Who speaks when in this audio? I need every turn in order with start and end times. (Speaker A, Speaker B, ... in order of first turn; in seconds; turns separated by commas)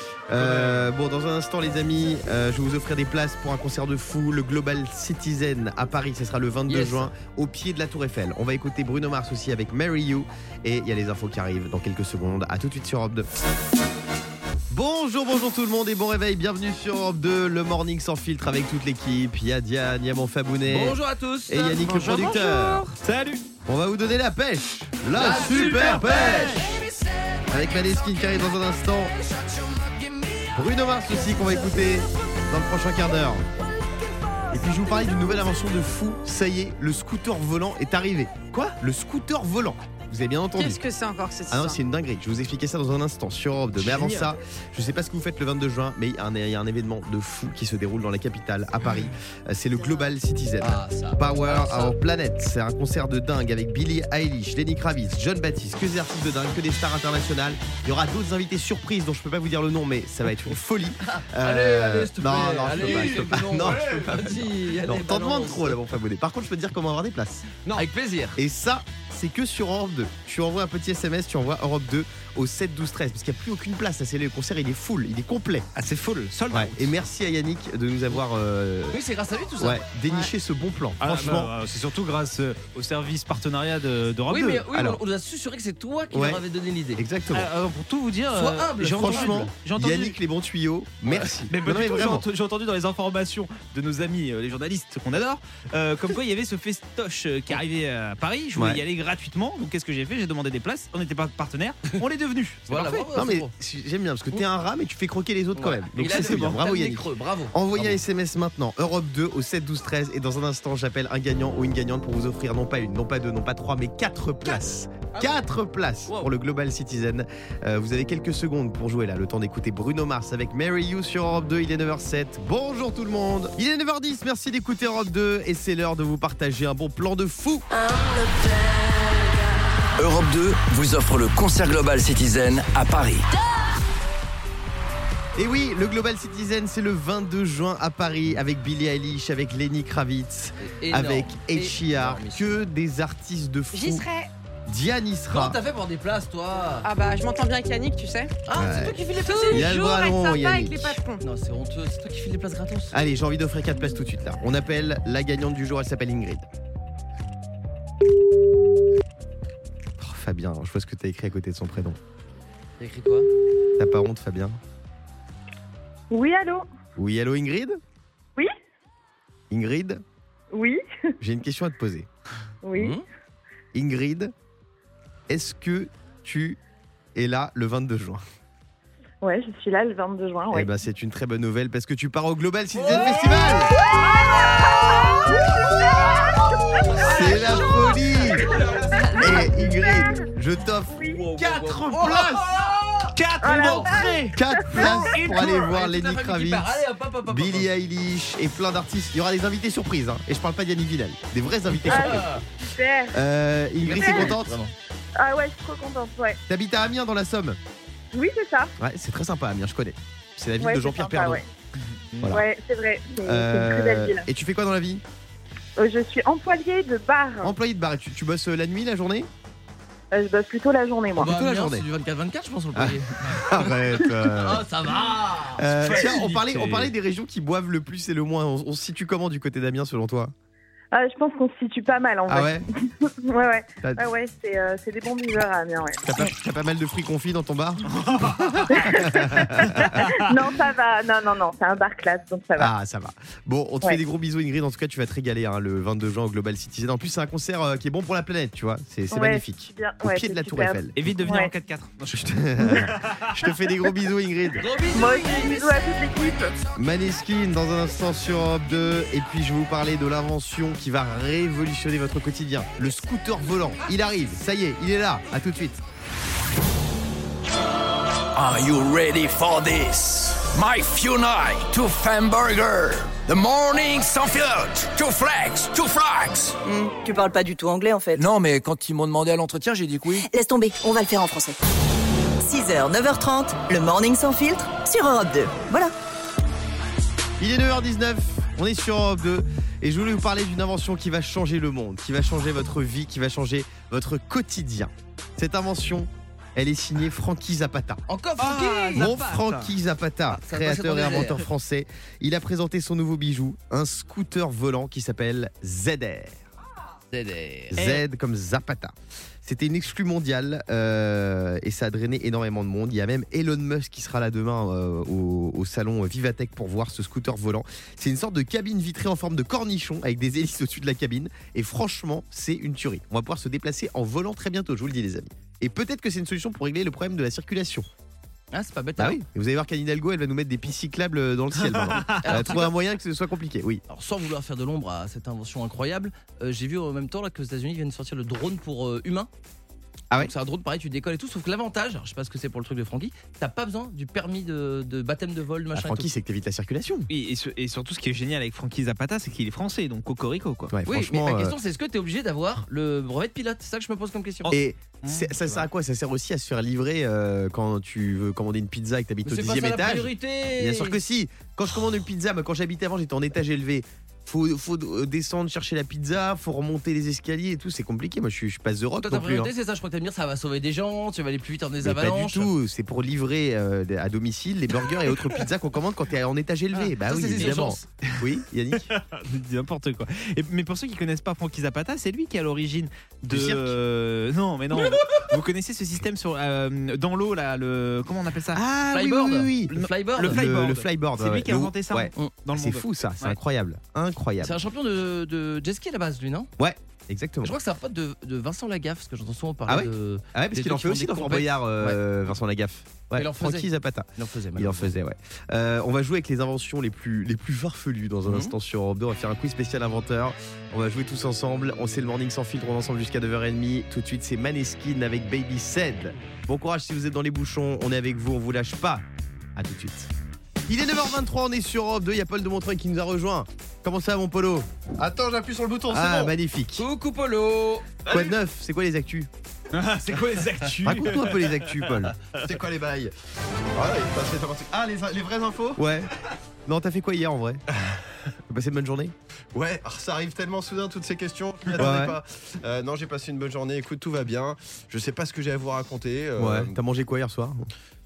Speaker A: 0.3-13.3, Speaker B: 0.3-0.9, Speaker C: 6.7-7.1, Speaker A: 14.7-22.8, Speaker C: 20.7-22.4, Speaker D: 22.1-22.9, Speaker B: 23.0-23.4, Speaker A: 23.7-26.8, Speaker C: 25.1-26.7, Speaker A: 27.5-29.2, Speaker A: 30.5-33.5, Speaker A: 34.5-40.8, Speaker D: 40.6-41.8, Speaker A: 41.5-67.5, Speaker B: 43.8-44.4, Speaker C: 50.6-51.9, Speaker C: 61.0-65.8, Speaker C: 67.7-68.4, Speaker A: 68.4-75.7, Speaker B: 75.8-77.0, Speaker A: 76.5-79.0, Speaker C: 78.9-79.8, Speaker A: 79.6-81.5, Speaker B: 81.0-84.7, Speaker C: 84.3-87.0, Speaker A: 84.7-85.0, Speaker A: 86.1-86.4, Speaker A: 87.0-87.5, Speaker B: 87.3-90.2, Speaker C: 88.3-89.5, Speaker A: 88.8-92.2, Speaker C: 91.1-91.3, Speaker B: 91.5-103.1, Speaker A: 98.5-98.8, Speaker C: 102.7-103.5, Speaker A: 103.1-127.7, Speaker C: 105.5-108.0, Speaker E: 130.0-133.3, Speaker A: 135.4-144.1, Speaker C: 140.6-142.6, Speaker D: 143.7-144.3, Speaker A: 144.7-145.6, Speaker C: 145.3-146.9, Speaker D: 146.8-148.3, Speaker C: 148.5-149.7, Speaker A: 148.6-151.0, Speaker D: 149.2-151.2, Speaker C: 151.2-153.0, Speaker A: 152.9-156.4, Speaker A: 160.0-162.0, Speaker C: 162.8-163.3, Speaker A: 163.8-164.6, Speaker F: 166.1-166.7, Speaker A: 167.0-167.8, Speaker A: 169.5-170.0, Speaker F: 170.5-170.8, Speaker A: 171.2-172.1, Speaker F: 172.6-173.0, Speaker C: 172.8-173.0, Speaker A: 173.7-174.3, Speaker A: 175.3-176.6, Speaker A: 177.2-178.2, Speaker F: 179.2-180.7, Speaker A: 180.5-183.8, Speaker C: 182.8-185.2, Speaker C: 186.0-189.3, Speaker A: 187.0-188.5, Speaker D: 189.0-189.4, Speaker A: 189.2-192.5, Speaker F: 189.9-190.1, Speaker F: 190.9-191.2, Speaker C: 191.2-193.1, Speaker B: 193.1-195.5, Speaker F: 193.4-194.2, Speaker A: 194.3-202.3, Speaker C: 195.1-197.7, Speaker C: 201.8-202.4, Speaker F: 201.9-203.2, Speaker A: 203.1-204.6, Speaker C: 203.8-204.7, Speaker F: 203.9-204.3, Speaker F: 205.2-206.4, Speaker A: 206.5-207.6, Speaker F: 208.1-208.7, Speaker A: 208.8-211.4, Speaker F: 210.6-211.4, Speaker F: 212.3-214.2, Speaker A: 213.2-215.0, Speaker F: 215.8-217.6, Speaker A: 217.4-219.3, Speaker F: 220.1-221.3, Speaker C: 221.2-226.8, Speaker A: 221.2-221.9, Speaker A: 222.8-224.7, Speaker A: 225.6-230.3, Speaker B: 225.9-226.2, Speaker F: 230.9-236.1, Speaker A: 232.3-232.7, Speaker A: 236.1-239.9, Speaker B: 237.9-238.9, Speaker F: 238.8-242.7, Speaker B: 239.6-240.5, Speaker A: 242.6-251.1, Speaker F: 249.1-251.5, Speaker B: 251.0-253.3, Speaker A: 252.1-254.7, Speaker C: 254.6-255.8, Speaker F: 254.9-256.6, Speaker A: 256.8-265.8, Speaker E: 268.4-276.5, Speaker G: 276.6-278.2, Speaker E: 278.2-280.1, Speaker G: 280.2-281.6, Speaker G: 282.4-285.9, Speaker A: 287.4-298.0, Speaker C: 298.1-299.1, Speaker B: 298.4-299.7, Speaker A: 298.9-306.4, Speaker C: 300.3-301.5, Speaker C: 307.1-307.8, Speaker A: 307.7-327.9, Speaker C: 328.5-329.2, Speaker A: 329.0-333.8, Speaker B: 331.8-332.5, Speaker C: 332.1-332.7, Speaker C: 333.9-339.3, Speaker C: 340.2-346.1, Speaker A: 345.7-347.1, Speaker B: 347.1-350.7, Speaker A: 350.7-351.6, Speaker C: 350.9-354.6, Speaker A: 354.5-369.5, Speaker B: 355.0-355.6, Speaker C: 359.2-361.0, Speaker C: 369.0-372.5, Speaker A: 371.8-378.9, Speaker C: 376.7-377.8, Speaker B: 377.4-378.3, Speaker B: 378.9-388.6, Speaker A: 383.3-383.8, Speaker C: 384.9-385.2, Speaker A: 388.5-394.6, Speaker C: 388.9-390.6, Speaker B: 390.1-393.4, Speaker C: 394.4-396.5, Speaker A: 396.6-397.6, Speaker C: 397.4-402.0, Speaker A: 399.7-419.1, Speaker C: 403.1-404.9, Speaker C: 408.2-408.6, Speaker A: 419.6-420.1, Speaker A: 420.7-424.7, Speaker H: 425.0-426.3, Speaker A: 425.9-426.8, Speaker C: 426.8-427.9, Speaker H: 428.1-428.3, Speaker A: 428.1-429.3, Speaker B: 429.7-431.9, Speaker A: 430.7-432.1, Speaker H: 432.4-433.1, Speaker H: 433.7-435.8, Speaker A: 435.8-436.1, Speaker A: 436.7-437.6, Speaker H: 437.7-438.0, Speaker A: 438.5-439.1, Speaker H: 439.5-446.7, Speaker A: 441.8-442.2, Speaker A: 446.4-447.7